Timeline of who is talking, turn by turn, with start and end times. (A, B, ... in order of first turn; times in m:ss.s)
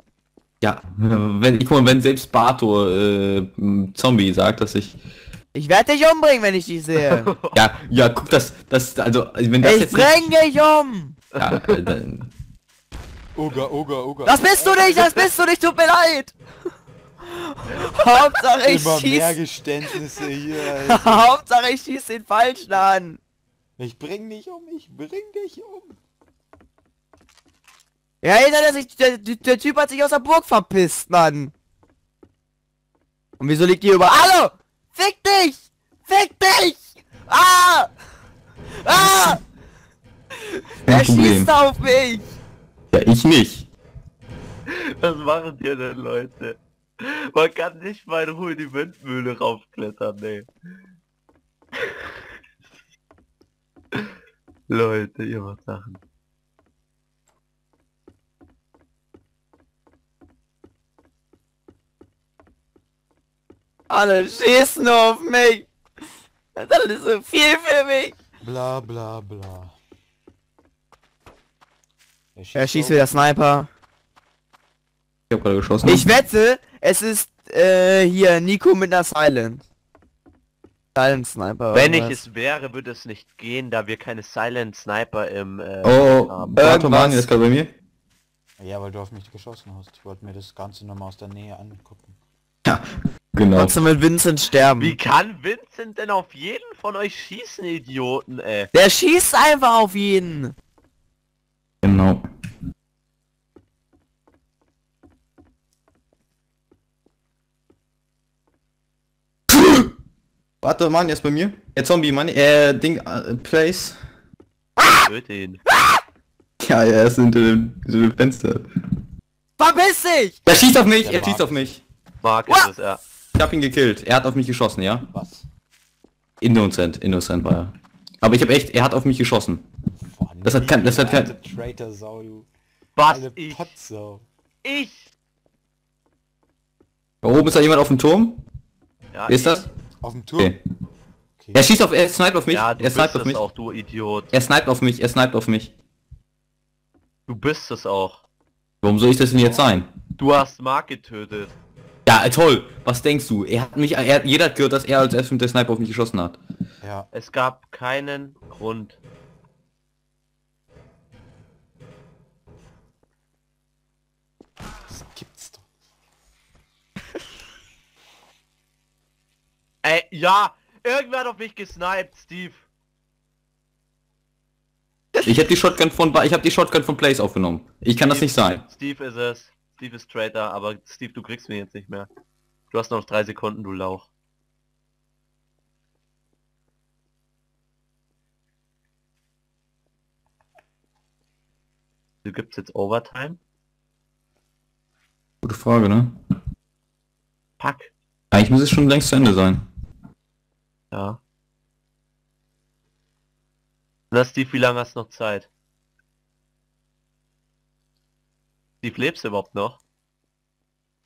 0:00.6-0:05.0 A
0:05.5-0:07.3 B
0:07.0-0:07.6 C
0:07.5-0:10.3 A
0:09.6-0:11.2 B
0:11.4-0:11.9 C
0:11.4-0:12.3 A
0:13.4-0:15.1 D
0:14.2-0:16.4 B
0:17.3-0:19.4 B
0:18.6-0:21.3 D
0:20.8-0:23.2 B
0:23.8-0:26.0 D
0:28.2-0:31.5 B
0:33.4-0:37.9 B
0:38.8-0:39.4 B
0:40.4-0:42.3 B
0:40.9-0:41.5 A
0:42.9-0:43.7 A
0:44.7-0:50.5 C
0:51.8-0:52.1 C
0:54.7-0:56.0 C
1:03.9-1:05.7 B
1:06.6-1:08.1 B
1:08.4-1:09.8 D
1:12.4-1:13.1 D
1:12.6-1:13.7 B
1:15.3-1:16.1 A
1:15.9-1:19.6 B
1:21.0-1:22.2 B
1:21.7-1:26.8 C
1:25.8-1:27.7 A
1:26.6-1:27.3 B
1:28.6-1:32.2 D
1:32.6-1:33.8 A
1:33.6-1:35.0 B
1:34.8-1:38.7 C
1:38.7-1:40.5 B
1:41.8-1:42.2 A
1:49.5-1:49.8 B
1:50.6-1:54.0 A
1:54.8-1:55.1 B
1:54.8-1:55.6 C
1:55.7-1:56.0 B
1:56.6-1:58.6 A
1:59.6-2:00.4 B
2:00.5-2:01.8 A
2:00.9-2:01.8 D
2:02.2-2:03.0 C
2:03.4-2:05.1 A
2:05.1-2:05.5 D
2:06.4-2:09.7 A
2:10.0-2:12.5 D
2:10.4-2:11.3 A
2:13.0-2:13.7 C
2:13.1-2:14.3 D
2:14.6-2:15.1 C
2:17.2-2:18.4 A
2:19.1-2:19.6 C
2:19.3-2:19.7 A
2:20.0-2:20.5 D
2:21.4-2:21.6 D
2:21.5-2:23.4 A
2:22.5-2:24.3 C
2:24.3-2:25.7 A
2:27.3-2:28.2 C
2:28.8-2:29.9 A
2:30.2-2:31.5 C
2:32.1-2:36.4 A
2:36.8-2:37.1 D
2:37.1-2:39.0 C
2:44.9-2:45.7 D
2:49.8-2:52.6 C
2:55.2-2:55.5 B
2:55.2-2:58.6 A
2:58.0-3:02.1 C
3:02.7-3:04.1 C
3:12.2-3:13.4 C
3:15.4-3:16.2 A
3:17.6-3:17.9 C
3:18.3-3:19.6 A
3:20.9-3:21.2 C
3:24.1-3:25.5 C
3:28.8-3:29.8 C